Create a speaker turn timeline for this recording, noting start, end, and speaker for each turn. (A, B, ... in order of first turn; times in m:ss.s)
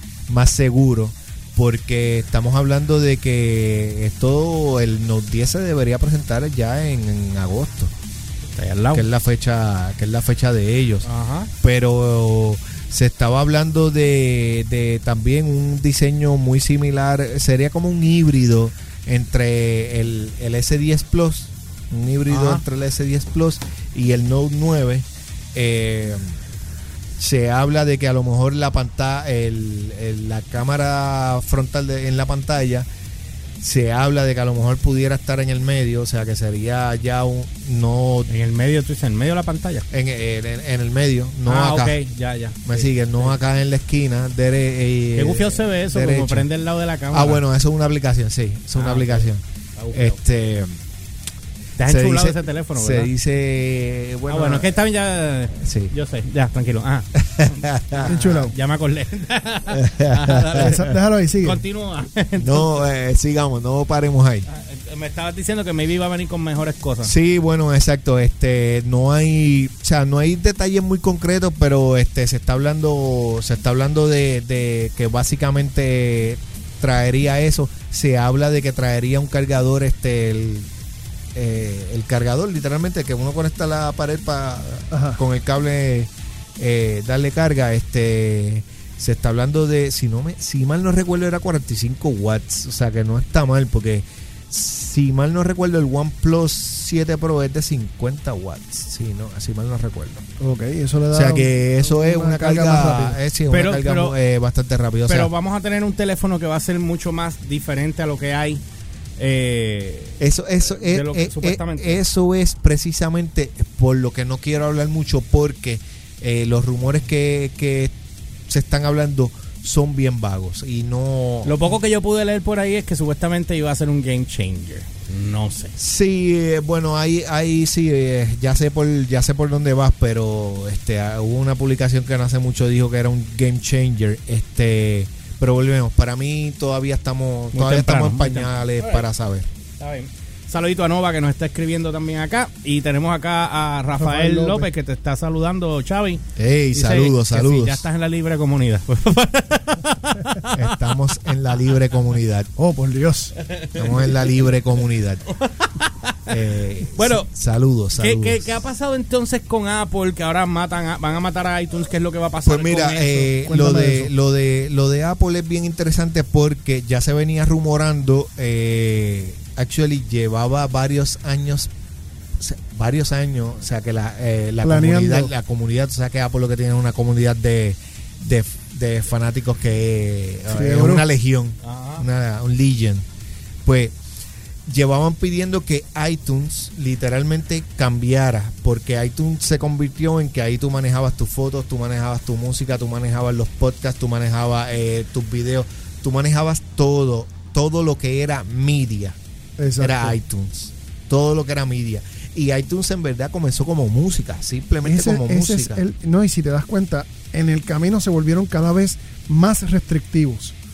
0:00.3-0:07.9 A
0:08.5-0:09.1 B
0:08.9-0:11.1 A
0:11.0-0:11.5 B
0:11.6-0:26.4 A
0:22.3-0:22.6 B
0:27.2-0:32.9 A
0:33.6-0:38.3 A
0:38.3-0:39.8 B
0:39.9-0:42.0 A
0:41.5-0:43.4 B
0:42.7-0:46.5 A
0:45.2-0:47.4 B
0:47.1-0:49.4 A
0:48.8-0:50.2 B
0:49.9-0:50.8 A
0:51.8-0:53.1 B
0:51.8-0:54.7 A
0:54.3-1:02.9 B
0:55.6-0:55.9 A
0:57.2-0:58.4 A
0:58.0-0:58.5 C
0:59.7-1:00.8 A
1:00.6-1:01.6 C
1:02.4-1:04.5 A
1:04.5-1:07.1 B
1:07.0-1:20.7 A
1:21.4-1:40.2 A
1:24.9-1:25.2 C
1:40.4-1:43.2 C
1:41.1-1:45.3 A
1:43.5-1:44.2 B
1:45.1-1:48.6 B
1:49.2-1:52.0 B
1:50.2-1:57.9 A
1:58.5-2:01.7 A
2:01.4-2:05.8 B
2:05.8-2:19.5 A
2:17.5-2:19.1 B
2:19.8-2:26.2 B
2:23.9-2:24.7 C
2:26.4-2:27.9 A
2:26.7-2:30.9 B
2:30.5-2:32.5 A
2:32.6-2:33.4 C
2:33.5-2:34.6 B
2:33.8-2:35.2 A
2:35.4-2:36.3 B
2:36.3-2:38.6 A
2:37.0-2:37.3 B
2:38.0-2:43.3 B
2:42.4-2:51.7 A
2:43.4-2:44.1 C
2:52.4-3:03.1 A
2:54.6-2:55.3 C
3:00.5-3:01.1 C
3:01.6-3:02.0 B
3:03.6-3:04.0 A
3:04.7-3:19.2 A
3:19.6-3:20.2 C
3:19.8-3:25.8 A
3:24.8-3:30.6 C